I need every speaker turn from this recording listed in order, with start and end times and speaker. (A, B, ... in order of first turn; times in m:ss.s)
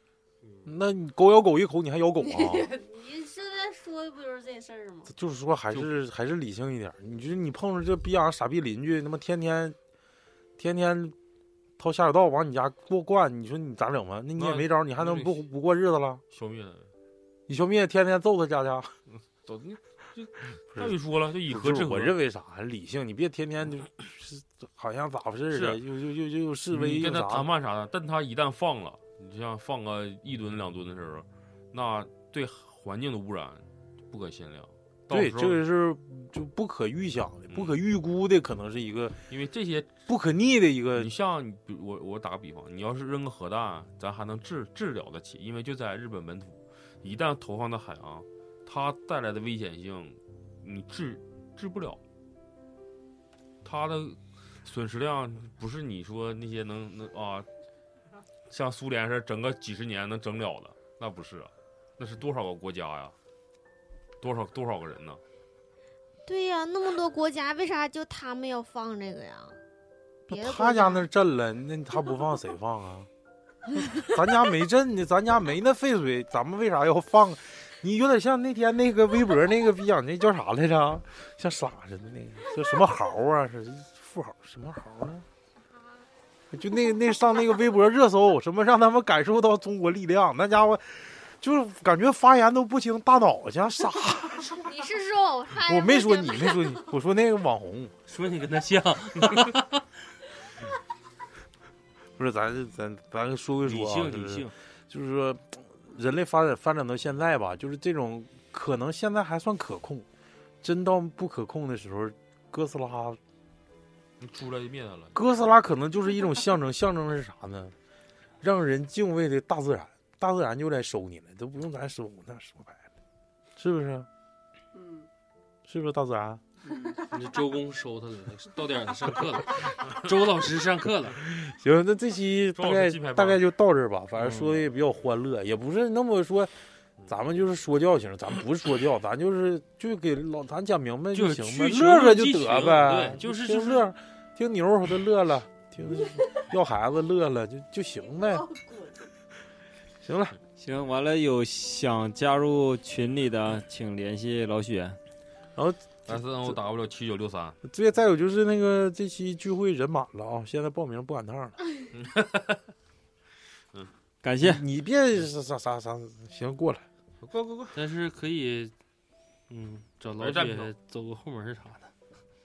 0:00.6-0:02.7 A
0:02.2-0:05.1 B
0:05.1-0:09.8 A
0:10.6-0:11.2 A
0:11.8-0:16.2 A
0:14.4-0:15.4 C
0:16.3-0:16.9 C
0:17.5-0:18.9 A
0:19.4-0:22.2 C
0:20.7-0:27.5 A
0:25.5-0:25.8 C
0:26.7-0:35.6 C
0:35.1-0:39.2 A
0:37.5-0:37.8 C
0:39.3-0:40.0 C
0:40.1-0:41.1 A
0:41.0-0:52.0 C
0:53.6-0:57.5 C
0:58.5-1:03.1 C
1:04.2-1:05.2 C
1:06.3-1:09.6 D
1:10.3-1:13.1 A
1:10.3-1:11.1 D
1:14.0-1:25.2 A
1:26.5-1:34.7 A
1:34.6-1:36.8 B
1:35.6-1:37.9 A
1:38.1-1:39.9 E
1:42.2-1:50.1 A
1:43.6-1:44.5 E
1:50.6-1:53.2 A
1:54.2-1:55.2 C
1:55.1-1:57.7 A
1:58.4-2:02.8 A
2:03.6-2:04.1 A
2:04.8-2:05.1 B
2:05.7-2:06.4 A
2:07.0-2:11.2 E
2:11.2-2:16.5 A
2:12.5-2:13.4 C
2:17.1-2:28.5 A
2:21.1-2:23.9 E
2:28.5-2:28.9 B
2:30.0-2:30.4 A
2:30.6-2:35.0 F
2:35.6-2:36.6 A
2:36.1-2:37.6 C
2:37.6-2:41.6 A
2:41.9-2:42.6 C
2:44.2-2:44.6 F
2:44.4-2:46.8 A
2:47.2-2:47.7 C
2:47.7-2:48.7 E
2:49.5-2:51.9 E
2:50.2-2:50.7 C